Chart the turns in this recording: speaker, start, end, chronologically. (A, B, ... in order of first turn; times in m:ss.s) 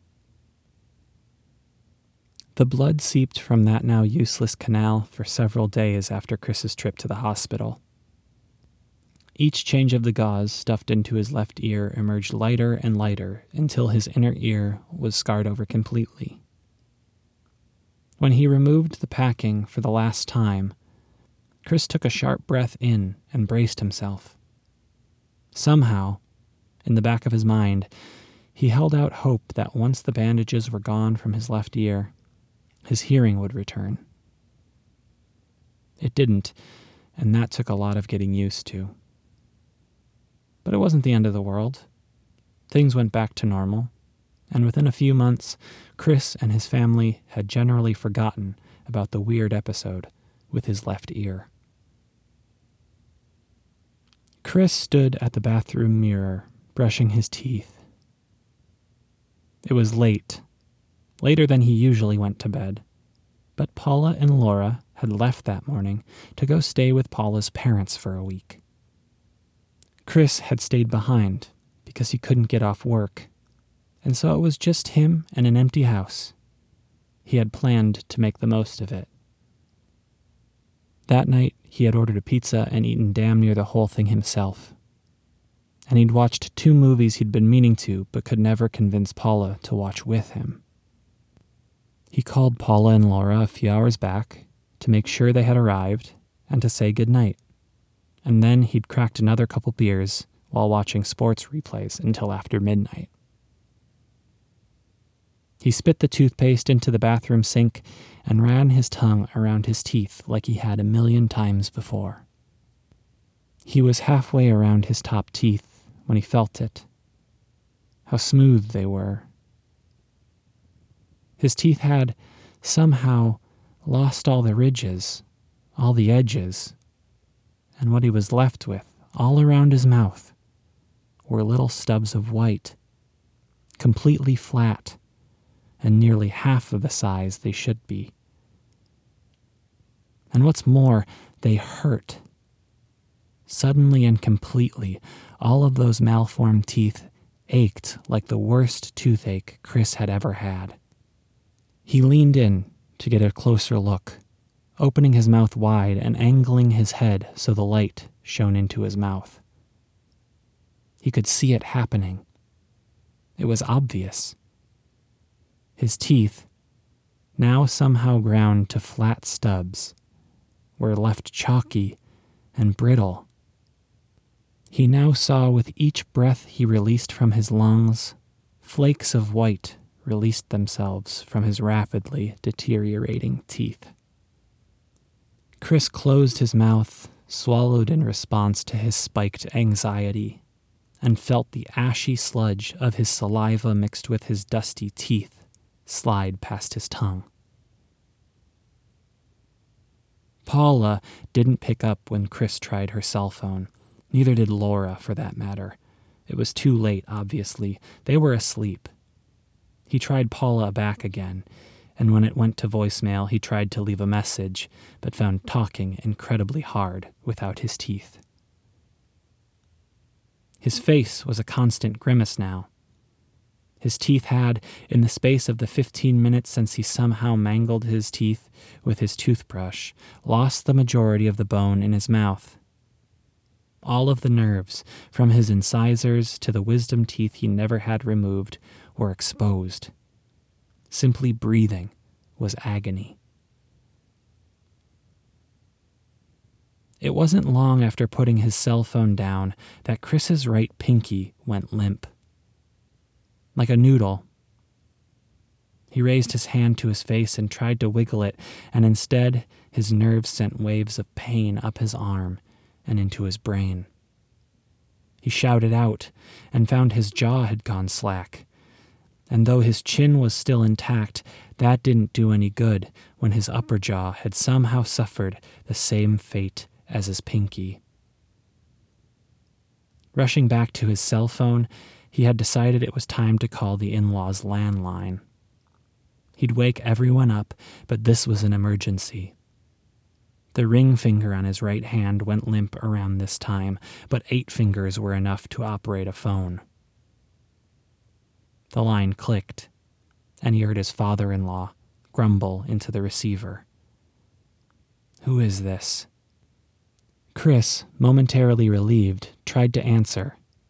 0:02.5-0:07.8 A
0:09.4-0:16.4 A
0:18.2-0:20.7 A
0:21.6-0:24.4 A
0:25.5-0:26.2 A
0:26.8-0:27.9 A
0:28.5-0:32.1 A
0:32.8-0:34.0 A
0:36.0-0:36.5 A
0:37.2-0:38.9 A
0:40.6-0:41.8 A
0:42.7-0:43.9 A
0:44.5-0:51.5 A
0:54.4-0:57.8 A
0:59.6-1:00.4 A
1:01.2-1:02.8 A
1:03.6-1:08.6 A
1:10.0-1:13.3 A
1:14.0-1:16.3 A
1:17.2-1:19.1 A
1:21.1-1:24.7 A
1:25.9-1:30.6 A
1:32.1-1:37.4 A
1:38.2-1:43.1 A
1:45.6-1:52.2 A
1:53.6-1:56.8 A
1:58.1-1:59.3 A
2:01.4-2:05.2 A
2:05.8-2:06.7 A
2:07.8-2:10.3 A
2:11.3-2:12.8 A
2:13.8-2:15.0 A
2:15.8-2:18.1 A
2:20.3-2:22.2 A
2:23.5-2:30.8 A
2:31.8-2:34.2 A
2:34.8-2:39.4 A
2:41.0-2:42.2 A
2:43.4-2:44.4 A
2:45.8-2:46.5 A
2:47.4-2:49.9 A
2:50.8-2:52.0 A
2:52.6-2:53.3 A
2:54.7-3:03.9 A
3:05.6-3:10.4 A
3:11.0-3:17.3 A
3:20.4-3:28.9 A
3:29.9-3:31.4 A
3:32.0-3:38.2 A
3:40.6-3:42.7 A
3:43.8-3:52.6 A
3:53.8-3:59.9 A
4:00.9-4:03.2 A
4:07.0-4:12.1 A
4:13.5-4:14.2 A
4:15.9-4:23.9 A
4:25.2-4:28.4 A
4:29.3-4:37.8 A
4:40.1-4:45.2 A
4:46.4-4:49.3 A
4:50.5-4:56.6 A
4:58.7-4:59.7 A
5:00.4-5:03.6 A
5:05.2-5:06.1 A
5:07.3-5:10.4 A